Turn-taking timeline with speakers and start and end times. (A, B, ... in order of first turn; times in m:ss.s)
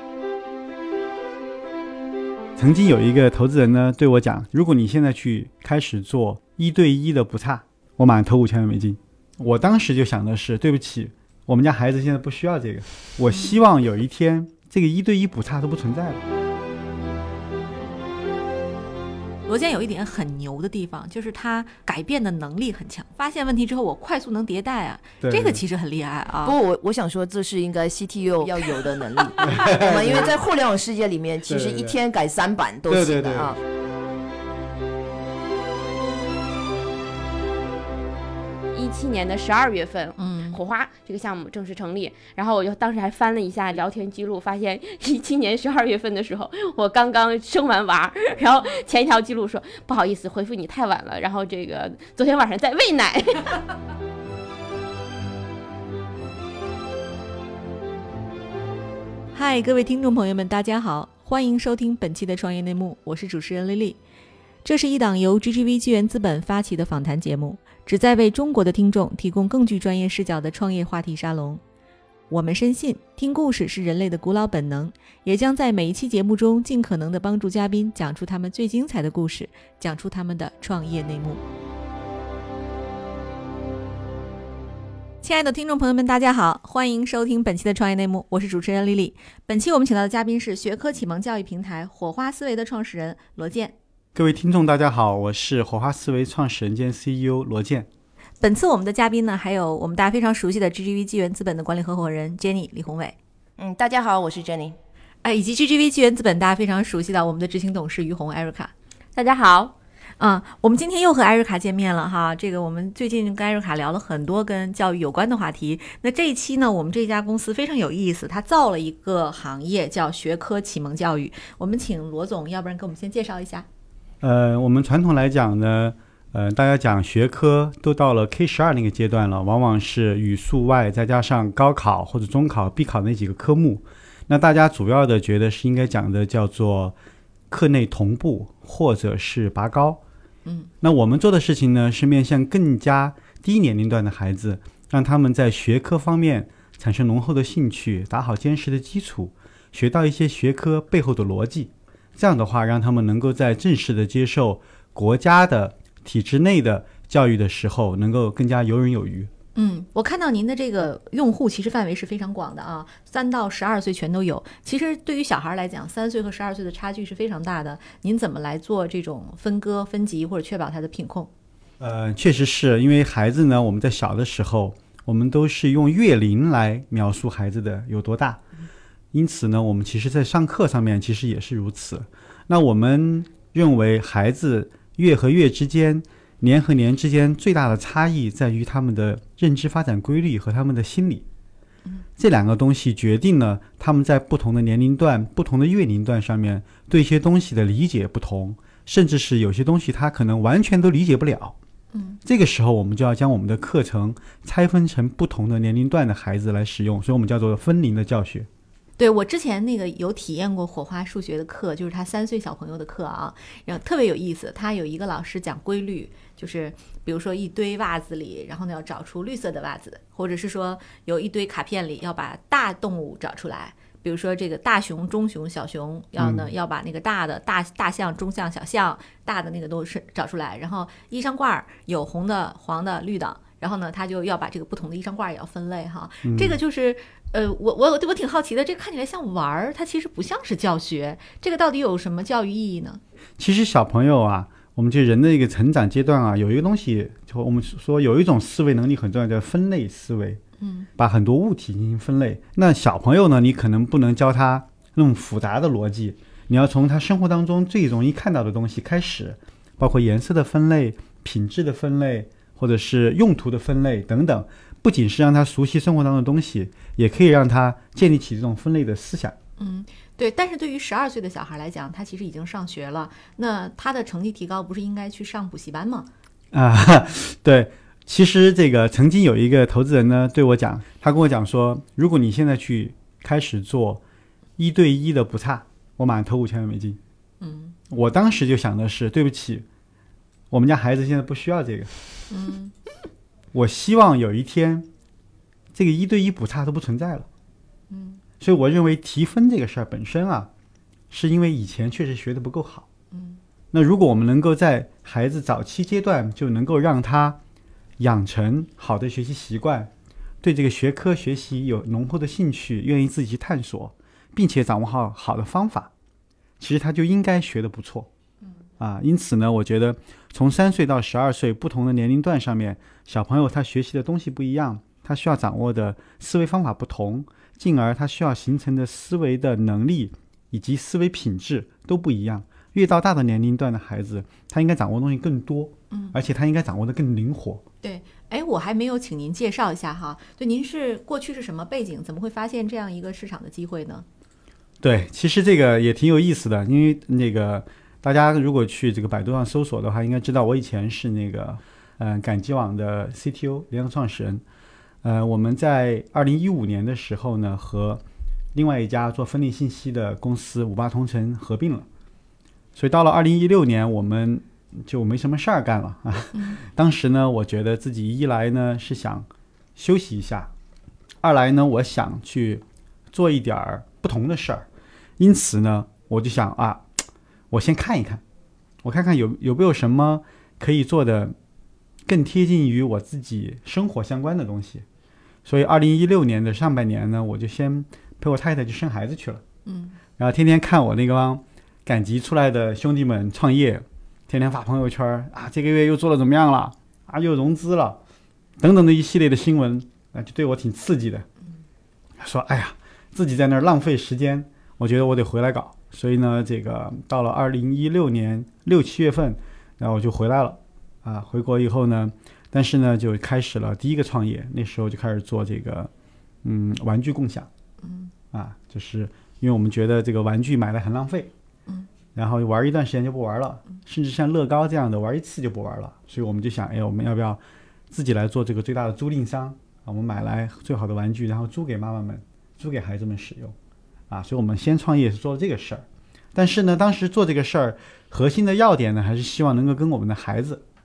0:02.6-0:16.2 A
0:19.5-0:26.6 B
0:25.2-0:25.6 A
0:26.4-0:33.6 C
0:29.4-0:30.3 A
0:31.5-0:32.0 A
0:32.9-0:33.6 A
0:38.7-0:53.6 D
0:40.2-0:40.6 B
0:59.4-1:04.0 B
1:04.6-1:11.6 B
1:12.3-1:21.4 B
1:25.2-1:33.8 B
1:34.2-1:37.9 A
1:38.4-1:43.2 B
1:43.6-1:44.8 C
1:45.2-1:48.7 B
1:49.2-1:49.7 D
1:50.2-2:03.7 B
2:04.2-2:17.0 A
2:17.5-2:20.0 A
2:20.8-2:39.3 A
2:39.6-2:51.3 B
2:51.8-2:58.4 A
2:59.1-3:11.2 A
3:12.2-3:21.6 A
3:21.9-3:22.2 B
3:22.2-3:28.5 A
3:29.0-4:03.0 B
3:46.2-3:46.5 A
3:56.2-3:56.6 A
4:03.4-4:10.4 A
4:10.6-4:10.9 B
4:11.0-4:29.4 A
4:29.6-4:36.1 B
4:36.5-4:44.0 A
4:44.6-4:47.0 A
4:47.4-4:47.8 B
4:47.9-4:49.7 A
4:50.5-4:51.9 A
4:52.3-4:52.7 B
4:53.5-4:54.9 A
4:55.8-4:57.3 A
4:57.9-4:58.2 B
4:58.4-5:00.5 A
5:01.1-5:02.9 A
5:03.1-5:03.4 B
5:03.7-5:07.4 A
5:08.0-5:09.9 A
5:10.4-5:15.9 A
5:16.6-5:18.1 A
5:18.8-5:37.6 A
5:35.9-5:36.2 B
5:37.8-5:44.0 B
5:44.8-5:54.4 A
5:55.0-5:58.0 A
5:58.5-6:01.9 A
6:02.8-6:10.5 A
6:11.2-6:14.7 A
6:15.2-6:16.9 A
6:17.5-6:18.2 A
6:18.8-6:21.4 A
6:22.1-6:24.8 A
6:25.4-6:29.4 A
6:29.7-6:30.0 B
6:30.2-6:38.0 A
6:38.6-6:41.3 A
6:42.2-6:55.9 A
6:56.4-6:57.5 A
6:57.8-6:58.1 B
6:58.3-7:01.3 A
7:02.2-7:07.4 A
7:07.9-7:13.6 A
7:14.1-7:20.6 A